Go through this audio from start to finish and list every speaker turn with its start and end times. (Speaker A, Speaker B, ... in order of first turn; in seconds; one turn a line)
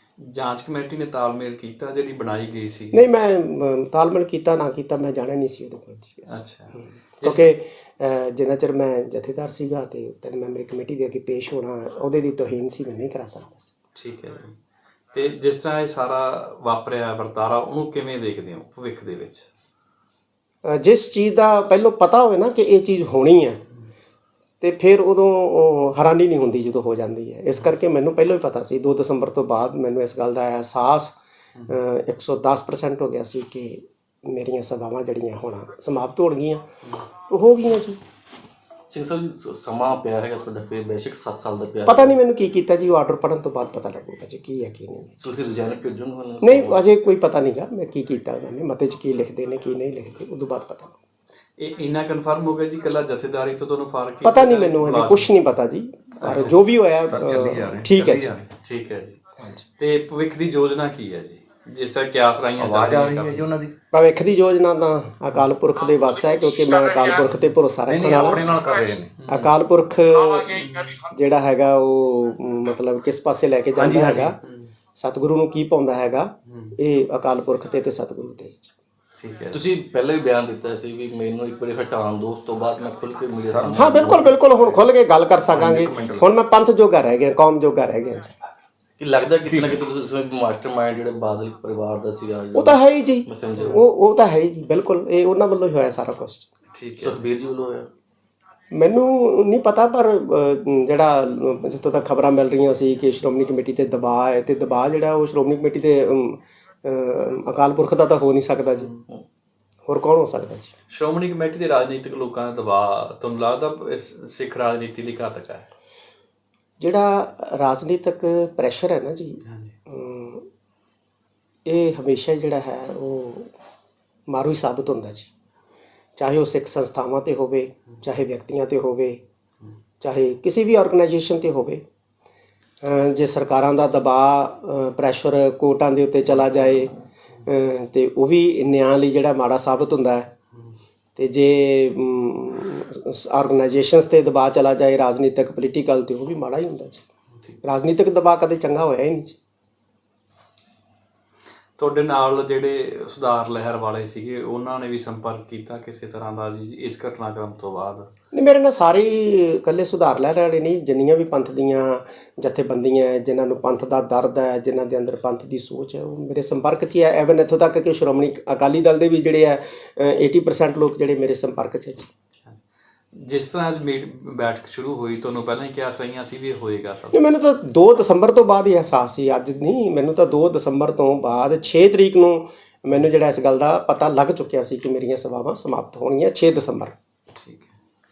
Speaker A: 0.2-3.0
Speaker B: 2.9-13.7
Speaker A: 6.3-7.5
Speaker A: 14.0-14.6
Speaker A: 15.1-19.5
Speaker B: 20.6-23.6
Speaker B: 24.6-31.1
Speaker A: 31.5-31.8
Speaker B: 31.7-36.6
Speaker B: 37.3-38.0
Speaker C: 38.9-42.2
Speaker B: 41.9-45.1
Speaker C: 45.2-46.8
Speaker B: 46.4-50.9
Speaker A: 51.6-55.3
Speaker B: 54.2-58.3
Speaker A: 56.2-56.5
Speaker D: 56.2-56.5
Speaker D: 57.1-58.5
Speaker A: 58.6-59.2
Speaker A: 59.8-63.5
Speaker D: 62.6-63.7
Speaker B: 63.9-68.6
Speaker D: 67.9-69.1
Speaker A: 69.1-69.5
Speaker B: 69.3-74.4
Speaker A: 70.5-71.0
Speaker D: 73.7-74.3
Speaker A: 74.4-74.7
Speaker B: 75.0-78.7
Speaker A: 76.5-76.8
Speaker A: 79.2-79.6
Speaker C: 79.5-84.3
Speaker D: 83.4-83.8
Speaker B: 83.8-88.3
Speaker D: 85.5-86.3
Speaker C: 89.0-93.8
Speaker D: 89.5-89.8
Speaker B: 92.5-96.5
Speaker A: 93.5-93.8
Speaker A: 96.7-97.2
Speaker C: 97.0-97.9
Speaker B: 98.7-108.9
Speaker B: 109.9-110.7
Speaker A: 110.9-115.7
Speaker B: 116.8-120.5
Speaker A: 119.4-119.7
Speaker B: 121.7-123.5
Speaker B: 124.3-125.3
Speaker B: 126.2-129.2
Speaker B: 130.0-131.8
Speaker B: 132.8-136.9
Speaker B: 137.4-140.3
Speaker B: 141.2-147.0
Speaker B: 147.6-149.4
Speaker A: 151.8-158.1
Speaker B: 158.3-172.1
Speaker A: 173.1-177.4
Speaker B: 177.1-186.9
Speaker A: 187.3-187.7